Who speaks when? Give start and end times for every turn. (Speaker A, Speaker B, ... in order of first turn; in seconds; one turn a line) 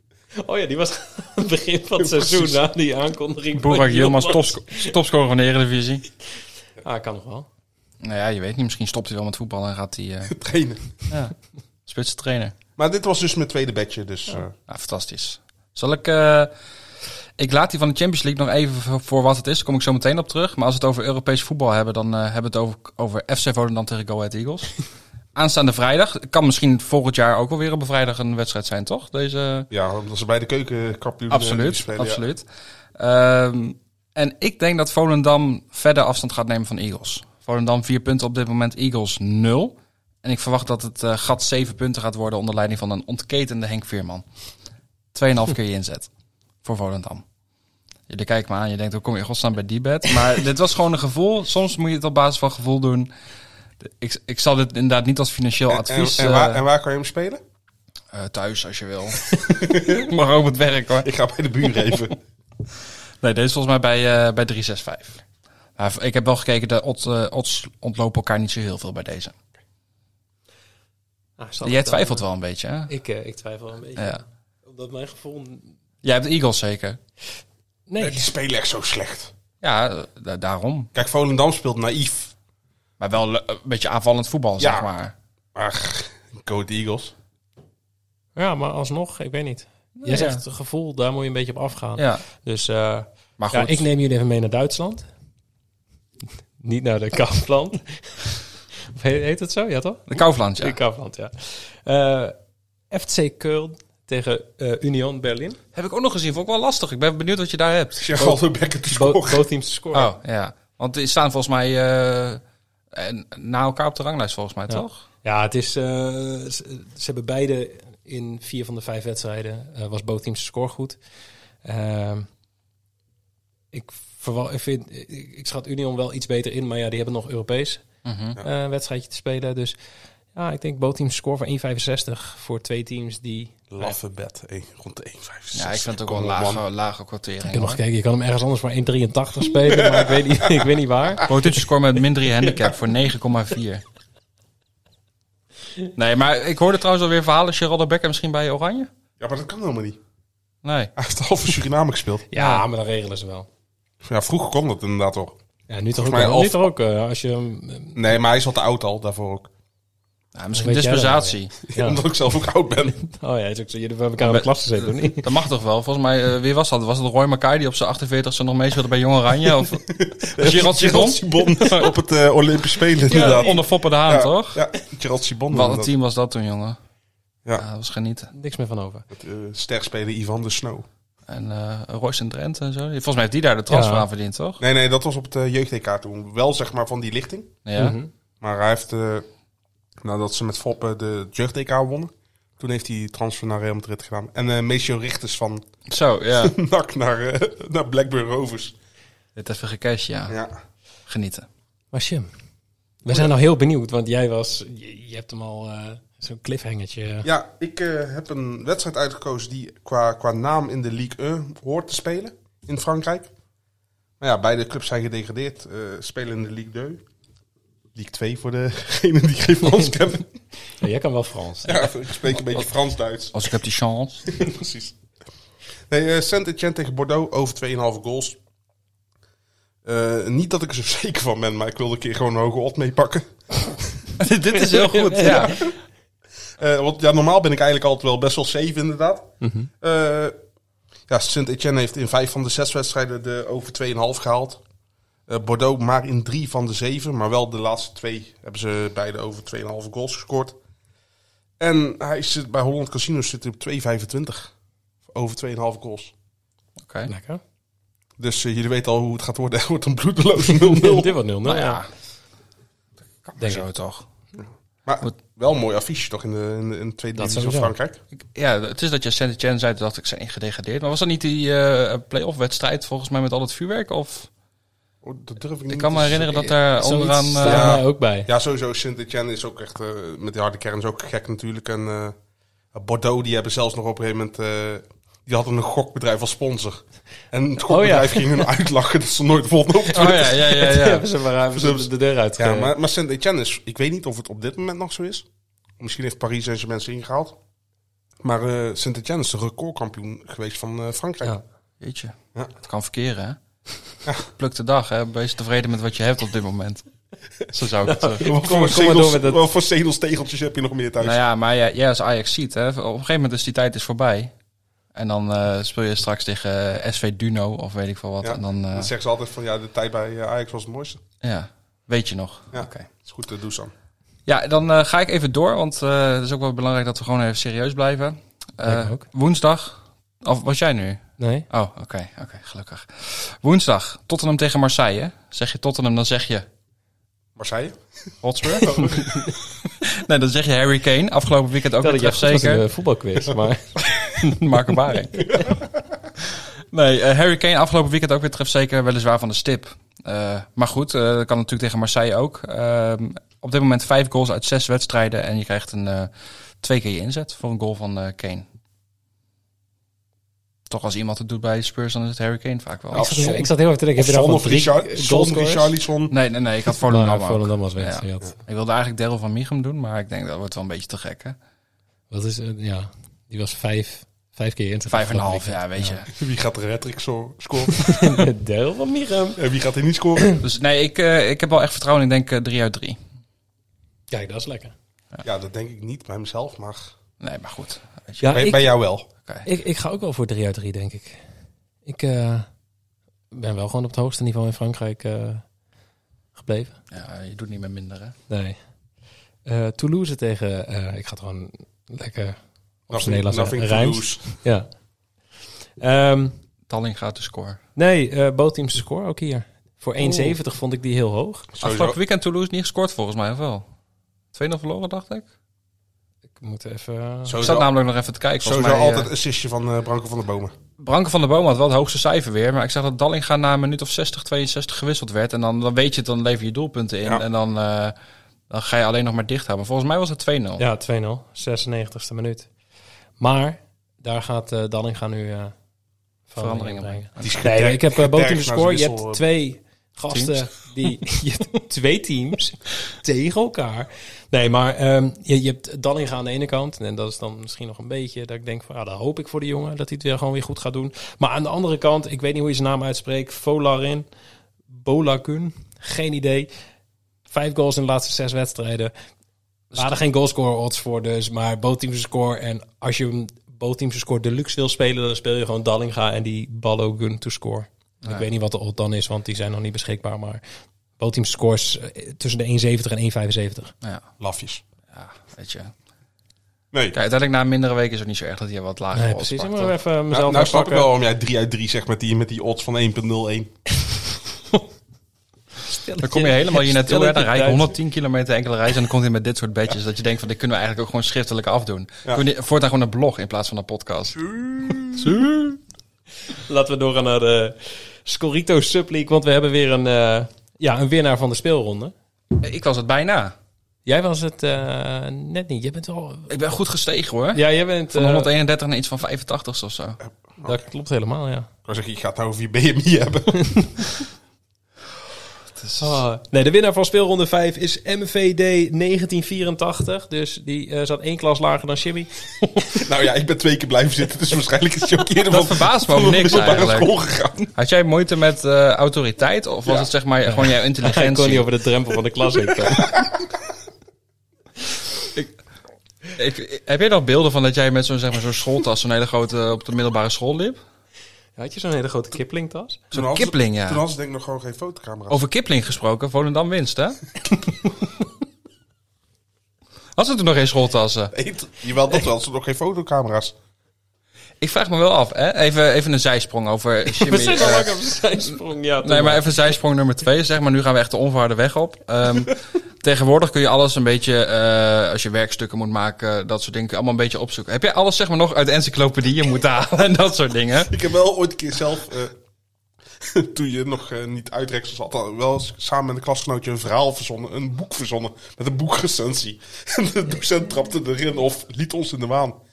Speaker A: 0.4-4.9
Speaker B: 2.0-2.6
Speaker C: 3.5-6.0
Speaker A: 6.8-7.5
Speaker C: 8.0-10.4
Speaker B: 10.3-10.8
Speaker C: 11.1-11.3
Speaker C: 11.9-12.5
Speaker B: 12.8-14.5
Speaker C: 14.7-16.5
Speaker C: 17.4-24.8
Speaker C: 25.4-29.7
Speaker B: 29.7-32.2
Speaker C: 31.3-32.5
Speaker C: 33.0-44.2
Speaker C: 45.1-46.1
Speaker C: 46.6-47.2
Speaker C: 48.1-53.1
Speaker C: 53.9-56.6
Speaker B: 55.7-57.4
Speaker C: 58.1-61.1
Speaker B: 59.5-60.1
Speaker B: 61.0-62.2
Speaker C: 63.2-65.2
Speaker C: 65.8-69.3
Speaker A: 71.4-72.2
Speaker C: 71.6-72.9
Speaker A: 72.9-75.7
Speaker C: 76.0-77.0
Speaker A: 77.9-78.3
Speaker B: 78.0-79.3
Speaker C: 79.6-80.9
Speaker B: 81.0-82.3
Speaker C: 83.0-85.1
Speaker B: 84.6-84.9
Speaker B: 85.5-87.1
Speaker A: 88.4-95.1
Speaker C: 90.0-90.4
Speaker C: 92.0-92.2
Speaker C: 93.4-93.9
Speaker A: 96.6-98.2
Speaker A: 98.9-102.3
Speaker C: 100.1-100.8
Speaker A: 102.9-105.6
Speaker C: 105.7-108.1
Speaker B: 108.0-109.5
Speaker A: 108.9-110.1
Speaker C: 109.9-112.4
Speaker C: 112.9-115.0
Speaker A: 114.7-121.0
Speaker A: 121.6-122.3
Speaker A: 123.7-127.8
Speaker C: 128.0-128.4
Speaker A: 128.4-129.8
Speaker A: 130.3-134.0
Speaker B: 133.7-136.6
Speaker C: 135.5-137.8
Speaker A: 137.5-141.3
Speaker B: 139.7-140.7
Speaker C: 141.3-143.8
Speaker C: 145.9-148.9
Speaker B: 149.2-150.0
Speaker C: 150.6-150.9
Speaker B: 151.0-152.3
Speaker A: 152.3-153.5
Speaker C: 152.4-152.6
Speaker B: 154.0-155.4
Speaker A: 155.7-158.0
Speaker B: 155.9-156.7
Speaker B: 157.9-159.5
Speaker C: 160.3-161.5
Speaker A: 160.6-162.0
Speaker B: 161.7-163.0
Speaker A: 163.0-165.3
Speaker C: 164.2-171.9
Speaker B: 169.9-175.9
Speaker A: 173.1-173.6
Speaker C: 173.1-174.7
Speaker C: 175.5-176.8
Speaker C: 177.6-178.3
Speaker A: 178.3-179.1
Speaker B: 179.1-180.9
Speaker C: 181.3-184.6
Speaker A: 183.7-184.1
Speaker B: 184.6-187.6
Speaker C: 187.7-188.0
Speaker A: 187.8-188.1
Speaker B: 188.4-189.3
Speaker B: 190.0-195.7
Speaker C: 195.9-196.6
Speaker B: 196.4-198.8
Speaker C: 199.4-200.4
Speaker B: 200.3-200.6
Speaker C: 201.1-201.5
Speaker A: 201.9-202.3
Speaker A: 203.0-207.3
Speaker B: 207.2-213.3
Speaker B: 214.2-217.0
Speaker B: 217.9-220.3
Speaker A: 220.8-221.9
Speaker B: 221.6-223.4
Speaker C: 223.3-224.3
Speaker B: 224.3-225.0
Speaker B: 225.9-228.4
Speaker B: 229.8-234.1
Speaker C: 234.2-235.7
Speaker A: 234.6-235.7
Speaker B: 235.2-235.7
Speaker B: 236.6-240.3
Speaker A: 239.4-239.7
Speaker B: 241.1-244.6
Speaker B: 245.3-250.6
Speaker B: 251.6-254.5
Speaker B: 255.1-256.1
Speaker C: 256.8-257.1
Speaker A: 257.1-257.4
Speaker B: 258.2-261.1
Speaker A: 260.5-261.8
Speaker C: 261.4-261.9
Speaker C: 263.2-264.1
Speaker B: 264.9-268.0
Speaker A: 267.2-267.7
Speaker C: 268.2-274.3
Speaker B: 275.0-276.5
Speaker C: 275.7-277.8
Speaker A: 276.8-278.3
Speaker B: 277.4-282.2
Speaker B: 282.7-290.6
Speaker A: 287.7-288.5
Speaker C: 289.9-291.1
Speaker A: 290.0-292.7
Speaker B: 291.5-295.3
Speaker B: 295.8-297.4
Speaker B: 298.2-301.4
Speaker C: 301.8-303.4
Speaker C: 304.3-306.9
Speaker C: 307.5-308.2
Speaker A: 307.9-309.4
Speaker B: 308.2-311.2
Speaker C: 311.0-314.3
Speaker C: 314.9-318.9
Speaker B: 318.2-321.0
Speaker C: 321.2-322.9
Speaker B: 322.5-323.7
Speaker C: 324.3-336.5
Speaker A: 328.6-329.0
Speaker A: 331.2-331.5
Speaker B: 337.4-337.8
Speaker C: 338.2-339.1
Speaker B: 338.6-339.1
Speaker C: 339.8-342.6
Speaker A: 341.8-343.7
Speaker C: 344.0-345.4
Speaker B: 345.2-345.8
Speaker C: 346.7-358.5
Speaker C: 360.7-363.3
Speaker B: 362.9-366.1
Speaker A: 362.9-365.7
Speaker C: 366.1-371.4
Speaker A: 366.9-368.4
Speaker A: 372.1-376.0
Speaker C: 374.9-376.1
Speaker B: 376.1-378.1
Speaker A: 377.8-379.4
Speaker B: 379.4-380.3
Speaker C: 380.4-383.0
Speaker A: 384.1-384.7
Speaker B: 385.2-386.9
Speaker C: 387.2-388.4
Speaker A: 388.2-388.7
Speaker B: 388.3-389.1
Speaker A: 389.5-391.2
Speaker A: 391.9-392.5
Speaker A: 393.3-395.4
Speaker A: 396.4-396.8
Speaker C: 396.9-398.2
Speaker A: 398.3-398.6
Speaker A: 399.5-404.7
Speaker B: 402.9-404.4
Speaker A: 405.8-406.4
Speaker C: 406.7-407.6
Speaker A: 407.8-411.5
Speaker C: 410.1-410.3
Speaker B: 411.5-412.0
Speaker C: 411.6-413.6
Speaker C: 414.3-415.2
Speaker A: 416.4-417.5
Speaker B: 417.2-417.7
Speaker C: 417.4-419.1
Speaker B: 418.4-420.5
Speaker C: 420.8-427.9
Speaker C: 428.5-430.6
Speaker A: 430.6-432.5
Speaker A: 433.2-435.6
Speaker A: 436.3-454.1
Speaker C: 436.4-437.3
Speaker B: 437.2-439.2
Speaker C: 440.1-440.4
Speaker A: 454.7-456.5
Speaker A: 457.3-458.9
Speaker A: 459.7-470.4
Speaker A: 471.0-473.7
Speaker B: 474.2-474.6
Speaker C: 474.9-475.7
Speaker B: 476.7-477.0
Speaker C: 476.9-479.7
Speaker A: 478.9-480.9
Speaker B: 480.1-483.5
Speaker A: 485.7-487.8
Speaker C: 486.0-494.2
Speaker C: 494.8-495.6
Speaker A: 496.4-501.9
Speaker C: 502.4-503.3
Speaker A: 503.9-506.3
Speaker C: 506.3-510.0
Speaker A: 507.3-508.3
Speaker B: 510.0-510.7
Speaker A: 510.4-511.5
Speaker B: 511.6-513.4
Speaker A: 513.5-513.8
Speaker C: 515.6-516.0
Speaker A: 515.8-522.8
Speaker B: 522.8-527.5
Speaker C: 525.3-526.9
Speaker C: 527.5-531.5
Speaker A: 530.3-533.0
Speaker C: 536.1-540.6
Speaker A: 541.4-542.8
Speaker C: 542.9-543.8
Speaker B: 542.9-545.2
Speaker C: 545.1-547.1
Speaker C: 550.0-551.1
Speaker B: 551.1-553.4
Speaker C: 554.4-570.8
Speaker A: 556.9-559.3
Speaker B: 570.6-572.1
Speaker B: 573.0-582.4